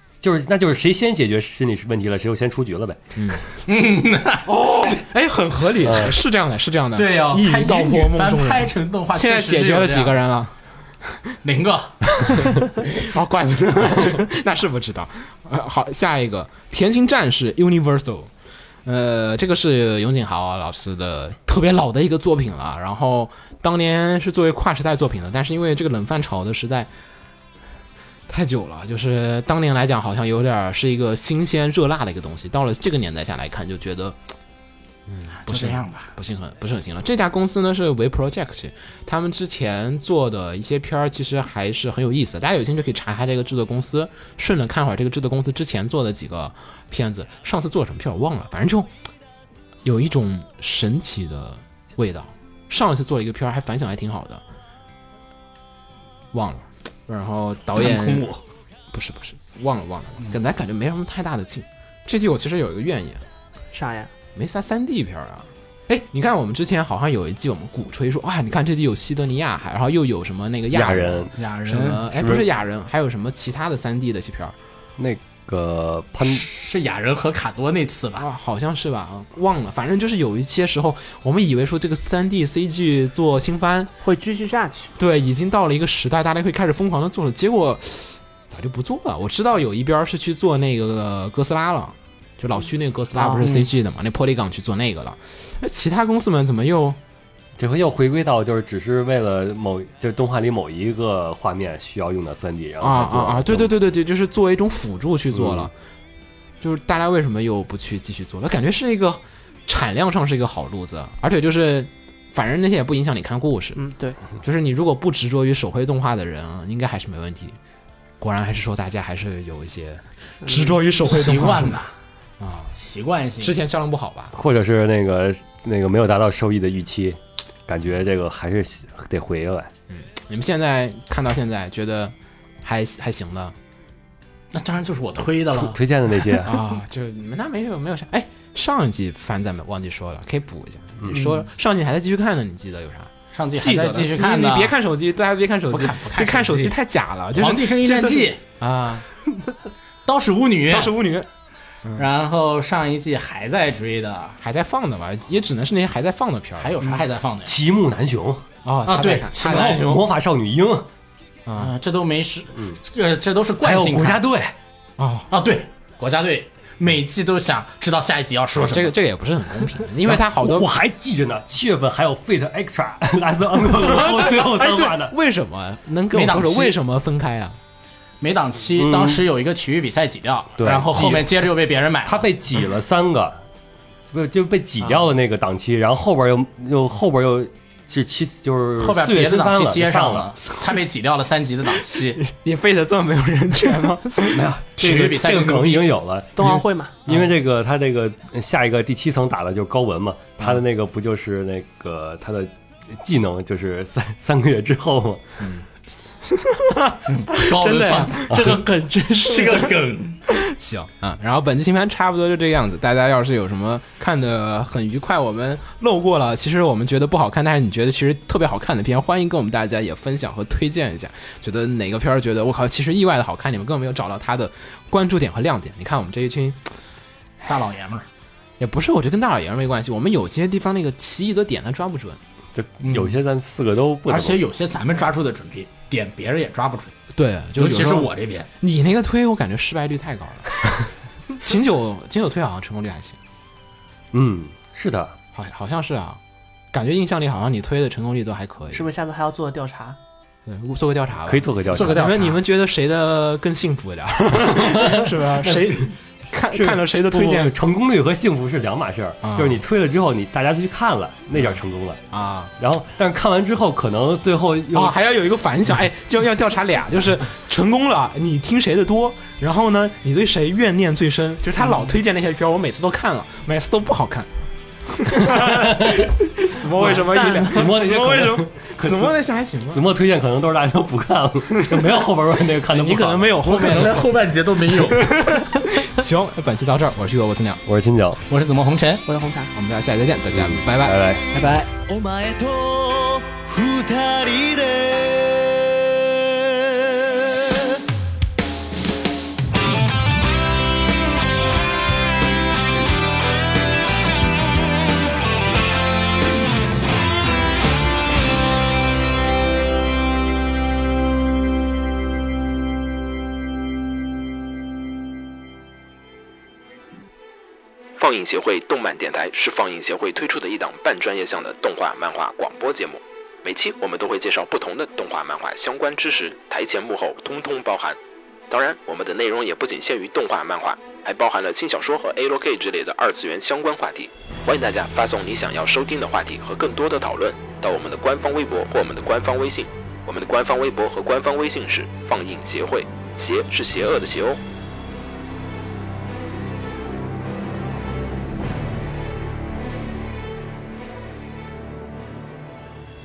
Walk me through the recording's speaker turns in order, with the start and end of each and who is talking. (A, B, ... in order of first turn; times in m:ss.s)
0:00.2-0:03.1 A
0:03.2-0:03.4 B
0:03.7-0:04.5 C
0:04.5-0:11.3 B
0:05.8-0:06.2 A
0:07.0-0:10.2 C
0:11.4-0:12.6 C
0:12.2-0:18.3 B
0:18.8-0:26.9 B
0:28.3-0:34.2 B
0:35.1-0:48.9 B
0:35.4-0:36.1 C
0:49.8-0:54.4 B
0:56.3-0:58.3 B
0:57.8-0:58.4 C
0:58.9-1:03.2 B
1:03.7-1:04.1 D
1:04.4-1:14.6 B
1:10.7-1:11.3 A
1:11.4-1:12.0 C
1:12.1-1:12.4 A
1:15.0-1:16.4 A
1:16.2-1:18.3 C
1:18.2-1:23.9 B
1:24.0-1:24.9 D
1:25.0-1:37.0 B
1:33.2-1:33.7 D
1:37.6-1:43.7 A
1:42.8-1:45.7 B
1:45.4-1:45.7 A
1:46.6-1:53.8 B
1:53.8-1:54.2 D
1:54.4-1:57.6 B
1:58.2-2:01.8 B
2:00.4-2:00.8 D
2:01.0-2:01.9 C
2:02.4-2:02.7 B
2:02.8-2:03.6 C
2:03.4-2:04.4 B
2:04.3-2:09.7 A
2:09.9-2:13.6 B
2:14.5-2:15.8 C
2:15.6-2:16.6 A
2:16.4-2:29.0 B
2:23.3-2:24.7 C
2:25.7-2:26.8 C
2:27.4-2:28.4 C
2:30.1-2:30.9 C
2:30.7-2:31.3 B
2:32.0-2:34.4 C
2:34.4-2:37.0 B
2:36.6-2:37.6 C
2:37.5-2:38.4 A
2:38.6-2:39.8 B
2:38.9-2:40.1 C
2:39.5-2:40.9 A
2:41.5-2:41.7 B
2:41.6-2:44.2 C
2:43.6-2:44.5 A
2:45.0-2:45.3 B
2:45.3-2:48.9 C
2:48.6-2:50.8 B
2:50.0-2:55.1 A
2:53.8-2:57.6 B
2:56.1-2:56.8 C
2:58.2-3:02.3 C
2:58.8-2:59.2 A
3:00.6-3:01.3 A
3:02.1-3:03.4 A
3:04.1-3:10.3 A
3:08.8-3:12.2 C
3:12.2-3:14.4 B
3:14.2-3:25.4 A
3:14.8-3:16.0 C
3:16.4-3:16.9 D
3:20.4-3:20.6 B
3:25.4-3:25.6 B
3:26.5-3:28.6 B
3:27.1-3:30.2 C
3:28.3-3:29.7 D
3:30.3-3:46.7 B
3:47.4-3:48.1 C
3:48.6-3:52.2 B
3:52.6-3:54.4 A
3:52.8-3:53.2 C
3:54.1-3:56.9 C
3:57.1-4:03.2 B
3:57.6-3:58.5 C
4:04.1-4:05.2 A
4:05.3-4:06.2 B
4:06.7-4:08.9 B
4:08.7-4:10.0 D
4:10.5-4:17.6 B
4:11.3-4:12.2 A
4:11.7-4:12.4 C
4:14.3-4:15.9 A
4:16.5-4:22.0 A
4:19.2-4:19.6 B
4:21.3-4:22.5 B
4:22.6-4:25.0 A
4:24.7-4:34.3 B
4:34.9-4:39.8 B
4:35.4-4:36.1 A
4:36.7-4:37.7 D
4:37.4-4:39.2 A
4:39.7-4:43.4 A
4:41.6-4:42.0 B
4:42.7-4:44.2 B
4:43.4-4:45.1 C
4:44.8-4:47.6 B
4:47.7-4:48.2 A
4:48.3-4:49.0 C
4:49.1-4:49.5 D
4:49.5-4:51.0 B
4:50.4-4:51.2 A
4:51.3-4:51.7 D
4:51.6-4:57.8 E
5:18.0-5:28.0 F
5:28.5-5:44.4 F